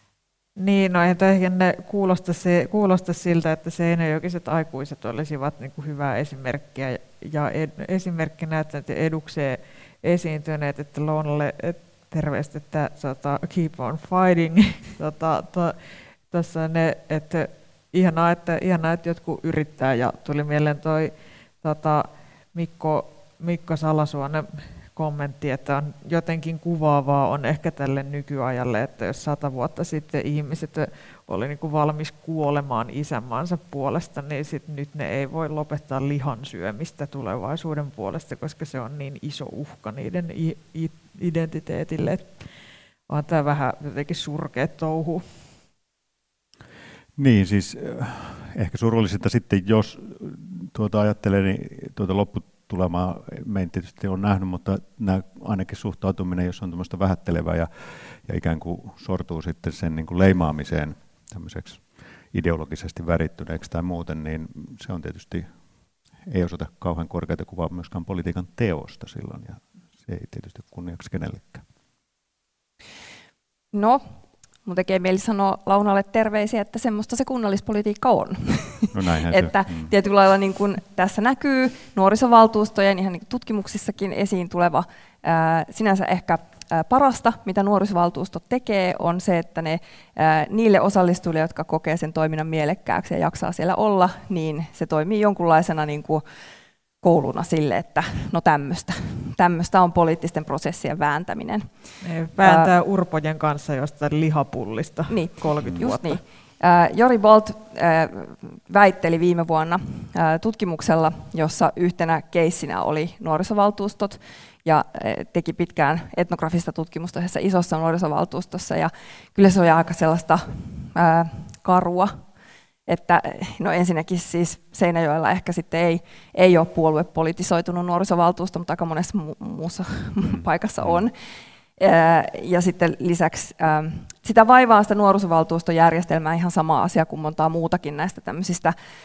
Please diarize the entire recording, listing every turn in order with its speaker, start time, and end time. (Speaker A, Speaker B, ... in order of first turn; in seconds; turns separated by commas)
Speaker A: 0.6-42.5, Speaker A: 43.1-45.2, Speaker B: 47.2-65.5, Speaker B: 66.3-71.6, Speaker C: 73.7-74.0, Speaker C: 74.7-96.2, Speaker B: 78.9-79.9, Speaker C: 97.0-101.8, Speaker A: 102.0-106.2, Speaker C: 102.4-102.7, Speaker C: 105.1-122.2, Speaker C: 122.9-131.1, Speaker B: 130.2-131.1, Speaker C: 131.8-138.7